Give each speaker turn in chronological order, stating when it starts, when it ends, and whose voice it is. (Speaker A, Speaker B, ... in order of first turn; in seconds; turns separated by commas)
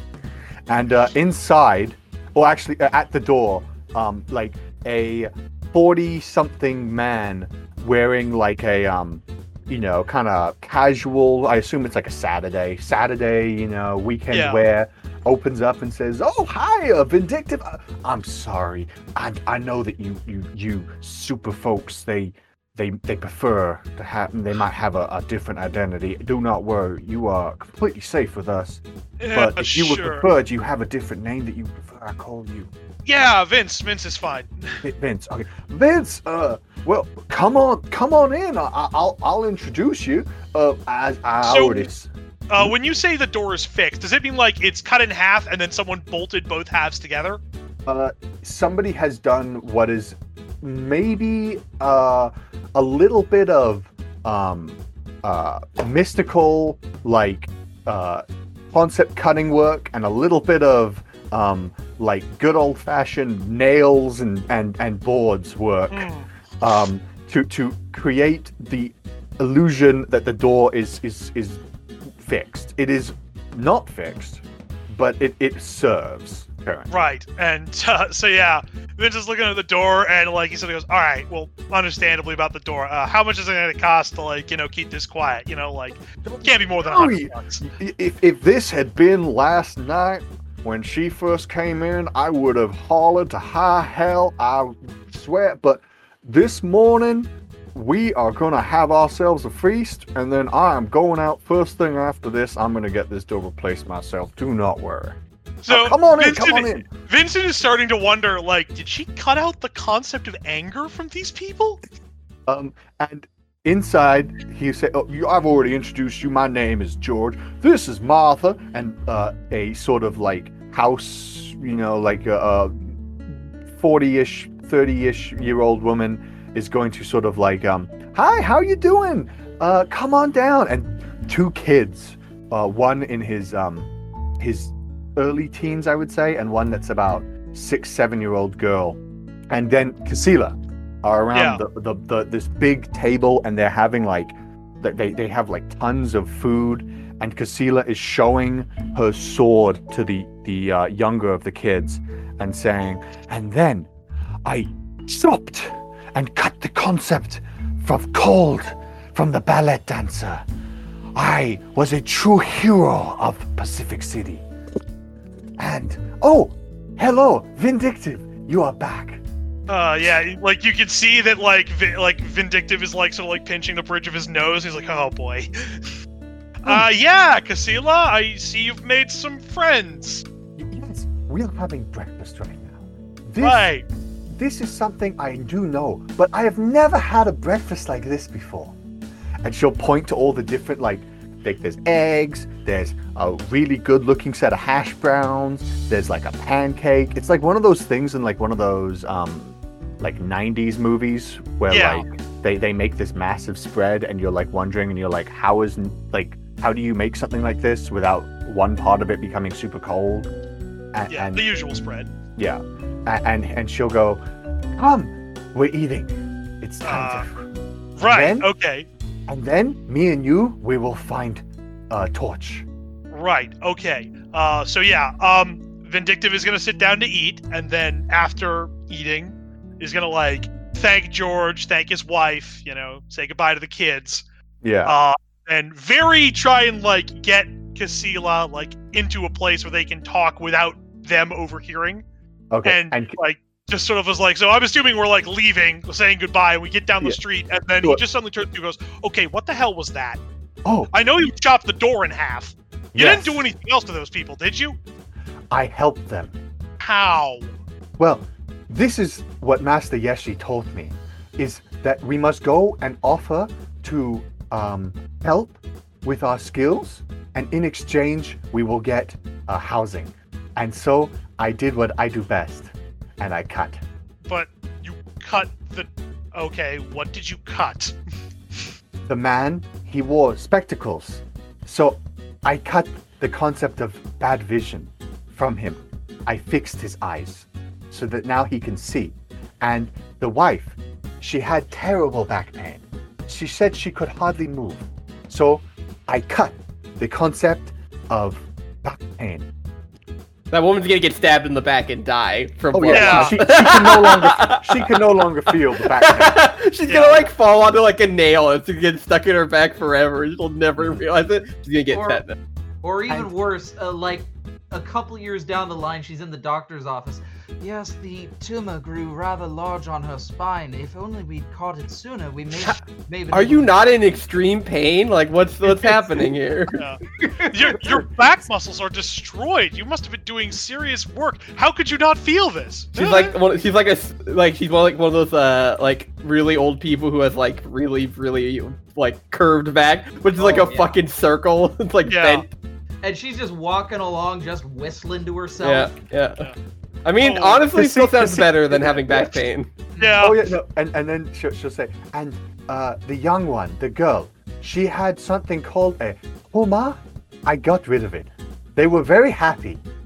Speaker A: 0.7-32.7, Speaker B: 14.3-14.6, Speaker B: 29.2-30.3, Speaker B: 33.0-34.8, Speaker A: 34.8-42.7, Speaker B: 41.4-41.9, Speaker B: 42.5-47.4, Speaker A: 47.9-66.1, Speaker B: 65.9-66.3, Speaker A: 66.6-71.6, Speaker A: 72.2-77.0, Speaker B: 76.9-87.6, Speaker A: 86.2-106.9, Speaker B: 105.6-111.8, Speaker A: 112.5-153.9, Speaker B: 141.3-141.6, Speaker A: 154.4-160.4, Speaker A: 161.2-164.4, Speaker A: 165.6-169.2, Speaker B: 169.7-175.9, Speaker B: 176.6-180.2, Speaker A: 180.6-183.7, Speaker B: 183.4-183.8, Speaker A: 184.3-188.8, Speaker A: 189.4-210.3, Speaker B: 201.7-202.1, Speaker A: 210.9-211.4, Speaker B: 211.1-212.1, Speaker A: 212.3-214.2, Speaker A: 214.8-217.4, Speaker B: 216.8-217.3, Speaker B: 218.0-218.9, Speaker A: 218.1-218.5, Speaker A: 219.3-222.7, Speaker B: 223.1-234.2, Speaker A: 234.6-234.9, Speaker B: 234.8-242.0, Speaker A: 242.5-243.2, Speaker B: 242.6-250.2, Speaker A: 250.6-250.9, Speaker B: 250.9-254.8, Speaker A: 252.9-253.4, Speaker A: 255.5-256.4, Speaker B: 256.8-257.5, Speaker A: 258.0-273.8, Speaker B: 274.2-277.9, Speaker A: 279.0-299.5, Speaker C: 300.5-305.0, Speaker A: 302.7-306.4, Speaker B: 302.9-303.4, Speaker C: 305.5-312.4, Speaker B: 306.9-307.3, Speaker D: 311.9-312.2, Speaker D: 312.8-323.7, Speaker C: 323.3-326.8, Speaker D: 327.3-327.5, Speaker B: 327.5-333.4, Speaker C: 332.9-342.5, Speaker D: 340.4-340.9, Speaker B: 342.1-342.4, Speaker D: 343.0-345.9, Speaker C: 345.6-346.5, Speaker C: 347.0-349.7, Speaker B: 347.2-347.6, Speaker A: 347.7-349.4, Speaker D: 349.9-350.3, Speaker B: 350.0-350.4, Speaker A: 350.2-359.8